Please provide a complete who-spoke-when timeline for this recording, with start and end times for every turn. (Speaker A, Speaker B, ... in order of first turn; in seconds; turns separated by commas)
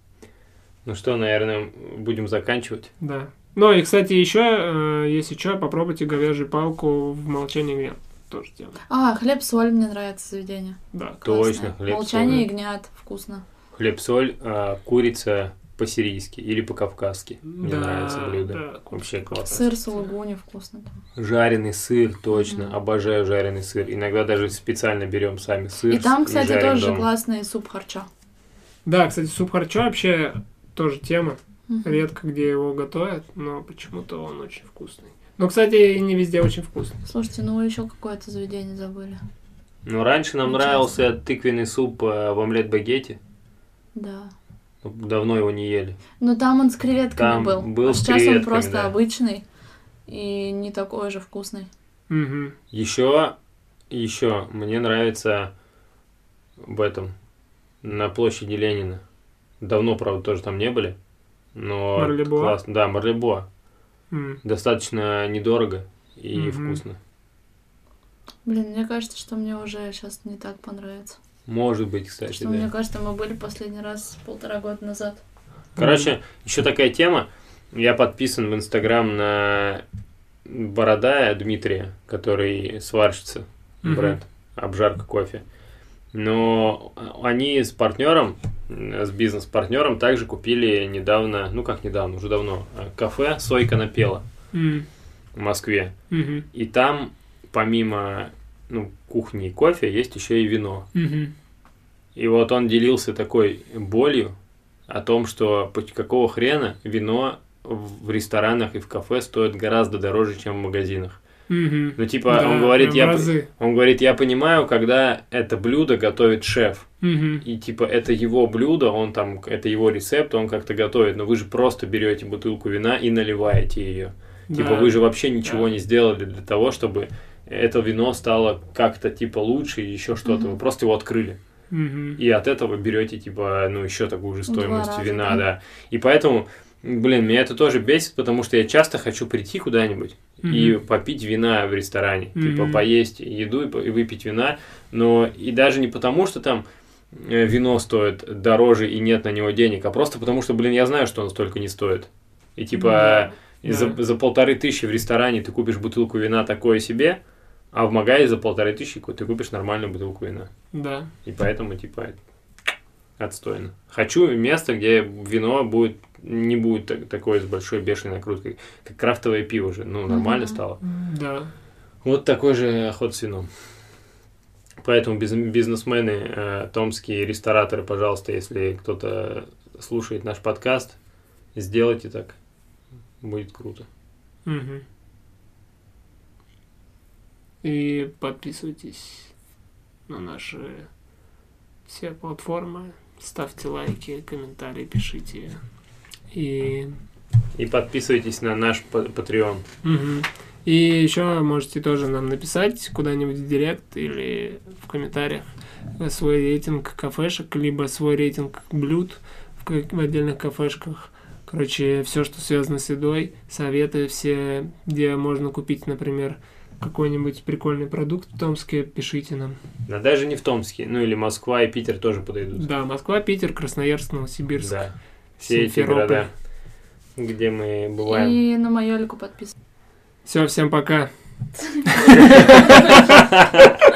Speaker A: 0.8-2.9, Speaker B: 3.0-8.8, Speaker C: 8.9-13.4, Speaker B: 10.9-11.2, Speaker A: 11.2-12.4, Speaker A: 13.7-19.6, Speaker B: 17.4-20.1, Speaker C: 19.4-20.9, Speaker A: 21.2-27.1, Speaker C: 22.3-22.7, Speaker C: 25.9-28.1, Speaker B: 28.9-36.9, Speaker C: 31.7-32.0, Speaker C: 37.0-39.2, Speaker A: 39.9-43.2, Speaker C: 40.5-40.8, Speaker C: 43.9-44.3, Speaker A: 44.8-46.0, Speaker C: 46.2-49.4, Speaker A: 47.1-48.9, Speaker C: 50.1-51.7, Speaker B: 52.1-52.5, Speaker A: 52.7-53.4, Speaker A: 53.9-55.5, Speaker A: 56.6-57.1, Speaker A: 57.8-59.0, Speaker A: 59.6-61.0, Speaker A: 61.5-63.5, Speaker B: 62.0-62.5, Speaker B: 64.1-64.4, Speaker A: 64.4-67.0, Speaker B: 66.3-66.8, Speaker C: 68.5-71.2, Speaker A: 71.5-72.7, Speaker C: 72.3-75.2, Speaker B: 75.8-76.1, Speaker A: 75.8-79.8, Speaker A: 80.4-85.4, Speaker B: 83.8-84.2, Speaker A: 86.1-94.2, Speaker B: 94.5-94.8, Speaker A: 95.3-95.9, Speaker B: 96.1-96.5, Speaker A: 96.5-100.9, Speaker B: 100.9-101.3, Speaker A: 102.2-104.3, Speaker A: 104.9-111.2, Speaker B: 111.5-113.5, Speaker A: 112.0-116.9, Speaker B: 117.0-117.4, Speaker A: 117.4-131.4, Speaker B: 124.5-125.7, Speaker C: 130.3-130.6, Speaker B: 131.7-132.2, Speaker A: 132.2-157.2, Speaker C: 134.5-135.4, Speaker B: 140.4-140.8, Speaker B: 142.3-142.8, Speaker B: 152.7-154.0, Speaker A: 157.7-160.5, Speaker B: 160.7-161.1, Speaker A: 161.2-162.2, Speaker A: 163.2-170.8, Speaker C: 170.1-170.6, Speaker B: 170.8-171.5, Speaker A: 172.0-173.5, Speaker A: 174.8-181.0, Speaker A: 181.6-182.4, Speaker A: 183.2-183.9, Speaker B: 184.4-184.8, Speaker B: 187.6-189.3, Speaker B: 190.1-190.9, Speaker B: 191.9-195.6, Speaker B: 196.3-196.9, Speaker A: 197.6-199.7, Speaker B: 199.8-219.6, Speaker A: 219.9-222.7, Speaker B: 222.6-226.3, Speaker A: 224.6-226.3, Speaker A: 227.2-228.4, Speaker C: 228.0-229.5, Speaker B: 230.3-231.1, Speaker C: 231.8-232.9, Speaker B: 231.9-233.2, Speaker A: 233.3-233.8